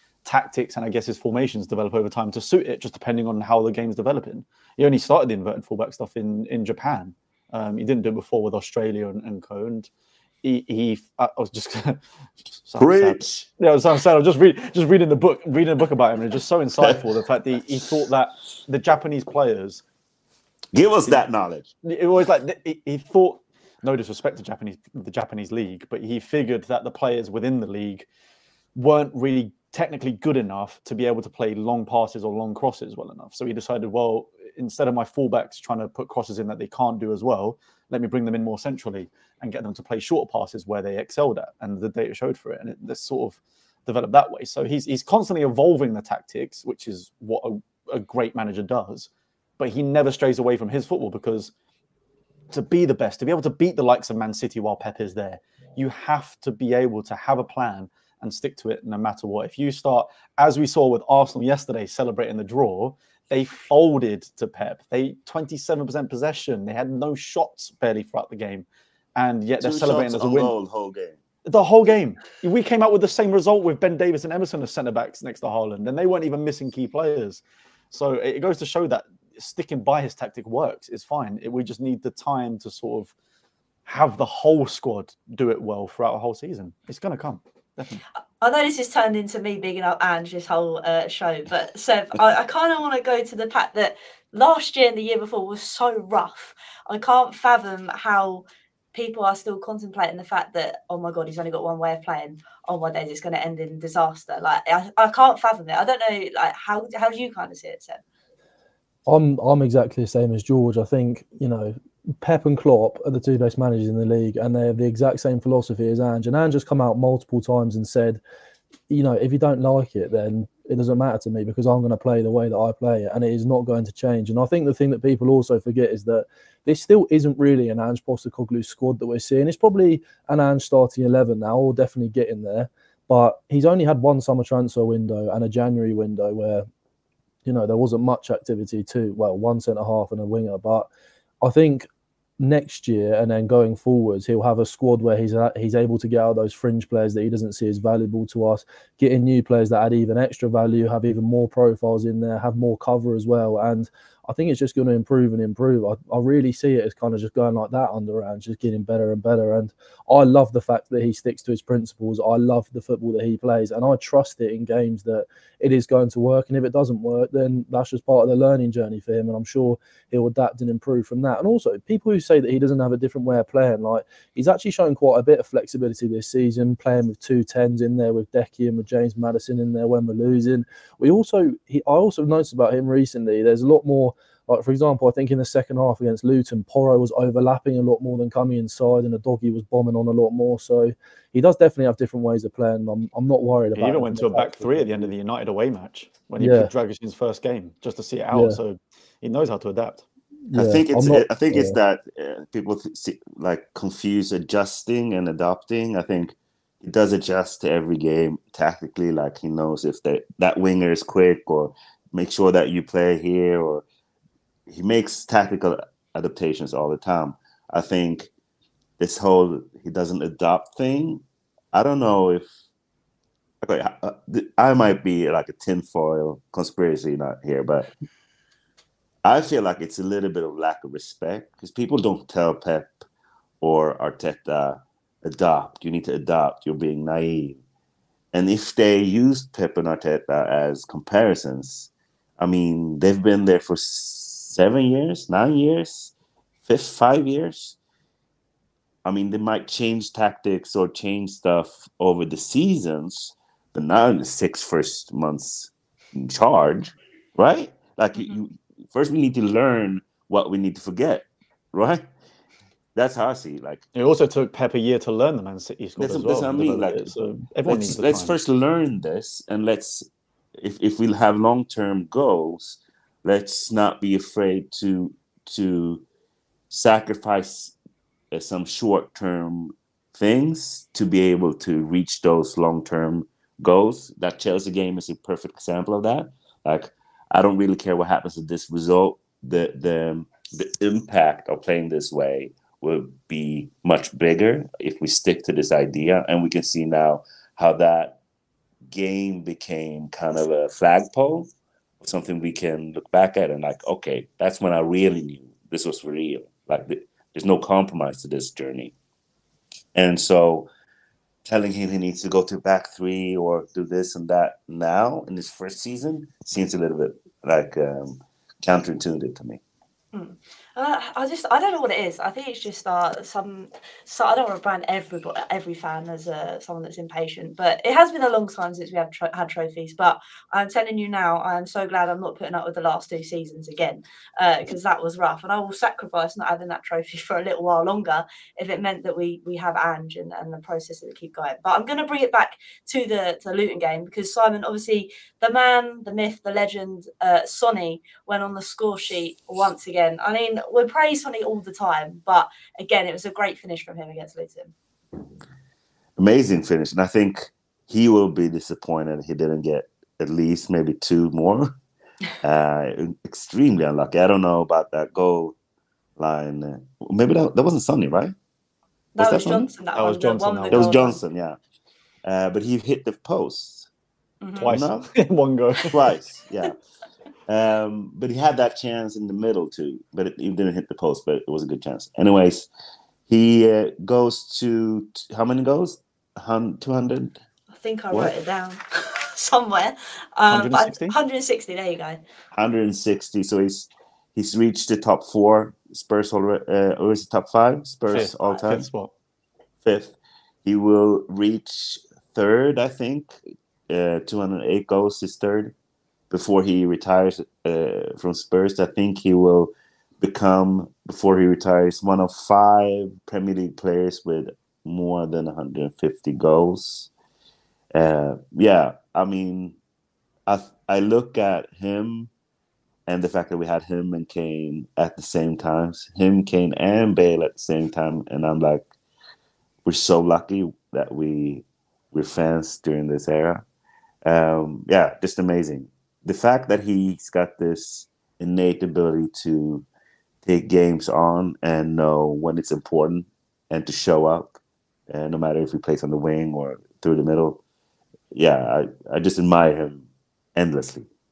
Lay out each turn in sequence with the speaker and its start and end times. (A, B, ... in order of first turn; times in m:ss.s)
0:00.2-0:09.9 A
0:10.4-0:19.8 A
0:12.8-0:13.5 B
0:20.7-0:21.7 B
0:21.8-0:28.1 A
0:28.8-0:51.5 A
0:52.5-1:10.5 A
1:09.6-1:11.2 B
1:11.4-1:23.1 A
1:23.9-1:28.0 A
1:28.4-1:48.0 C
1:49.1-1:58.2 D
1:58.9-2:16.6 D
2:17.4-2:20.9 D
2:21.4-2:21.9 D
2:22.4-3:15.1 D
3:13.8-3:20.0 A
3:16.4-3:16.7 D
3:18.3-3:18.6 D
3:20.5-3:21.8 D
3:20.5-3:33.9 B
3:34.7-3:38.3 B
3:39.0-3:42.5 B
3:43.6-3:47.9 B
3:49.2-3:52.9 B
3:53.6-3:57.6 B
3:58.3-4:06.1 B
4:06.6-4:07.8 B
4:09.0-4:22.0 B
4:23.0-4:23.8 B
4:24.0-4:28.4 A
4:26.0-4:27.1 B
4:27.6-4:30.0 B
4:30.6-4:36.0 B
4:36.7-4:37.8 B
4:38.3-4:58.2 B
4:58.9-5:01.5 B
5:02.0-5:08.9 B
5:10.0-5:10.7 B
5:11.4-5:19.6 B
5:20.1-5:54.7 C
5:56.2-6:01.7 B
6:02.4-6:05.6 B
6:06.2-6:08.3 B
6:09.2-6:11.2 C
6:09.2-6:09.7 B
6:10.0-6:10.9 A
6:10.7-6:11.6 B
6:12.2-6:13.9 B
6:14.4-6:14.8 C
6:14.6-6:16.0 A
6:14.6-6:15.1 B
6:15.9-6:16.7 B
6:17.5-6:22.7 B
6:23.3-6:27.4 B
6:27.7-6:32.2 C
6:30.5-6:31.2 A
6:32.6-6:38.9 B
6:38.1-6:39.1 A
6:38.1-6:38.6 C
6:39.8-6:43.4 B
6:43.9-6:45.7 B
6:46.3-6:57.1 B
6:57.9-6:59.8 B
7:00.5-7:02.3 B
7:03.1-7:08.9 B
7:09.8-7:13.6 B
7:14.2-7:19.9 B
7:20.4-7:24.6 B
7:25.1-7:27.6 B
7:28.3-7:30.0 B
7:30.6-7:31.1 B